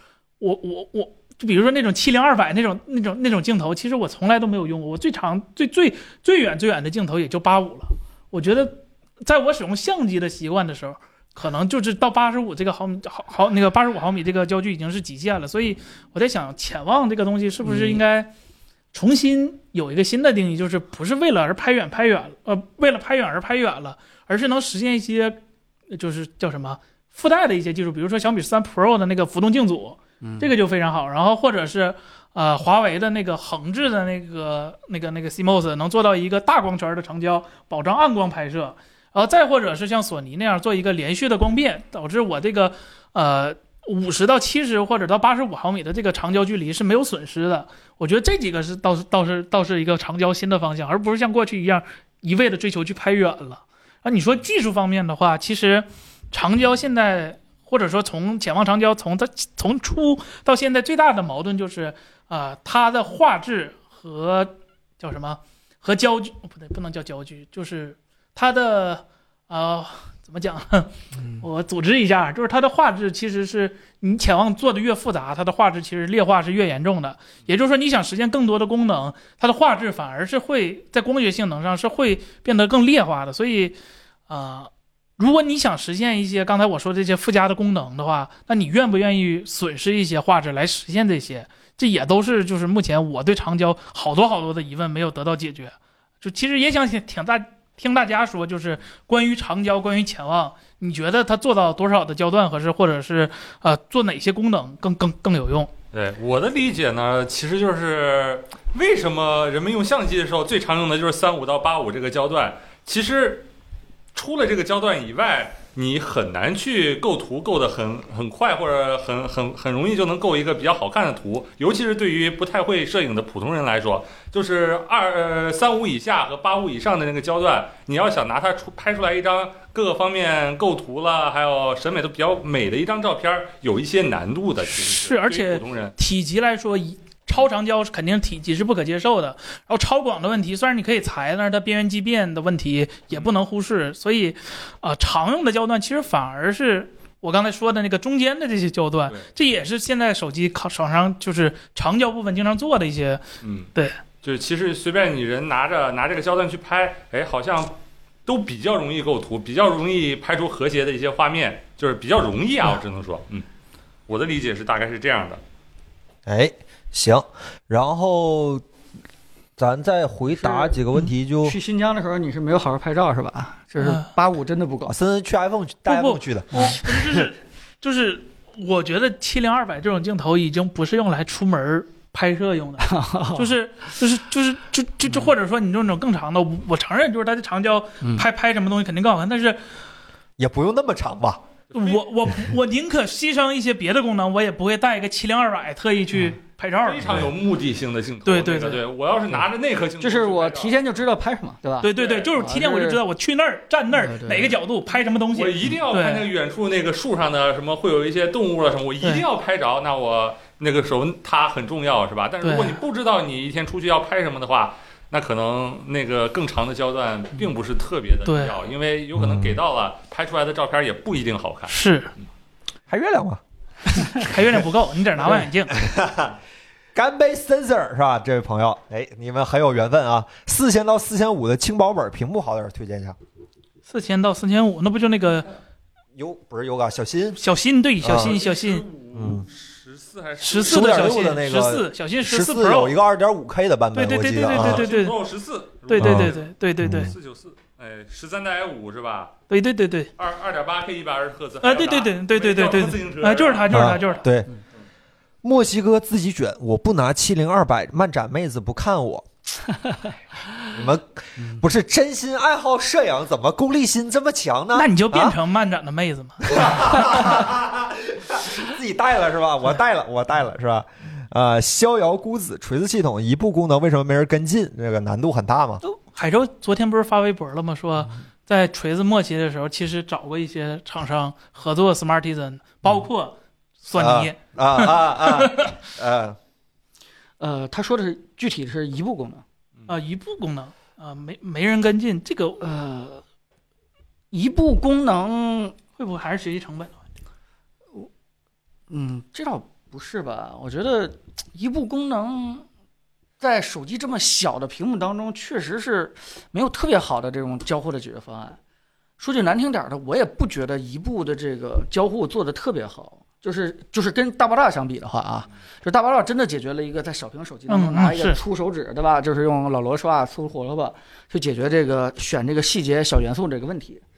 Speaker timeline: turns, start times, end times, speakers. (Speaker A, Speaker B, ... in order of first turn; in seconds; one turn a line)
Speaker A: 0.4-18.3
Speaker B: 17.6-18.0
Speaker A: 18.9-25.4
Speaker A: 25.9-83.8
Speaker B: 30.2-30.5
Speaker B: 71.2-71.4
Speaker A: 84.3-105.7
Speaker C: 105.9-113.5
Speaker C: 114.1-135.9
Speaker A: 134.7-153.2
Speaker C: 153.4-153.7
Speaker C: 154.2-163.4
Speaker C: 164.1-165.4
Speaker D: 166.2-168.6
Speaker D: 169.6-171.6
Speaker B: 170.4-170.7
Speaker B: 171.4-174.9
Speaker A: 173.8-174.1
Speaker D: 174.9-177.3
Speaker A: 175.9-189.6
Speaker B: 182.8-183.5
Speaker D: 190.4-191.4
Speaker C: 191.7-192.0
Speaker A: 191.7-197.2
Speaker C: 196.8-200.8
Speaker A: 198.2-198.8
Speaker B: 200.0-203.0
Speaker A: 201.8-206.3
Speaker C: 201.9-202.3
Speaker B: 203.9-204.6
Speaker C: 205.3-221.8
Speaker A: 212.4-212.8
Speaker A: 218.2-218.5
Speaker D: 219.2-219.6
Speaker A: 221.7-222.1
Speaker D: 222.9-223.4
Speaker A: 224.0-225.8
Speaker D: 225.7-226.3
Speaker D: 226.9-233.2
Speaker A: 233.9-235.5
Speaker D: 236.2-237.4
Speaker A: 237.4-238.8
Speaker D: 238.0-238.3
Speaker C: 238.1-241.4
Speaker D: 239.1-239.4
Speaker A: 240.4-243.0
Speaker D: 240.6-244.8
Speaker A: 243.9-245.2
Speaker C: 244.5-249.3
Speaker A: 245.9-247.1
Speaker D: 246.0-247.1
Speaker A: 249.5-250.1
Speaker C: 250.2-254.1
Speaker A: 251.6-254.2
Speaker D: 253.7-254.5
Speaker D: 255.4-259.2
Speaker D: 260.7-265.4
Speaker A: 264.7-267.4
Speaker D: 266.5-275.8
Speaker A: 275.8-285.7
Speaker D: 283.9-286.4
Speaker B: 287.4-289.4
Speaker A: 289.9-292.6
Speaker B: 292.6-293.2
Speaker B: 294.3-295.8
Speaker A: 296.0-297.0
Speaker B: 298.9-302.6
Speaker B: 303.4-308.6
Speaker B: 309.2-324.0
Speaker A: 317.7-318.4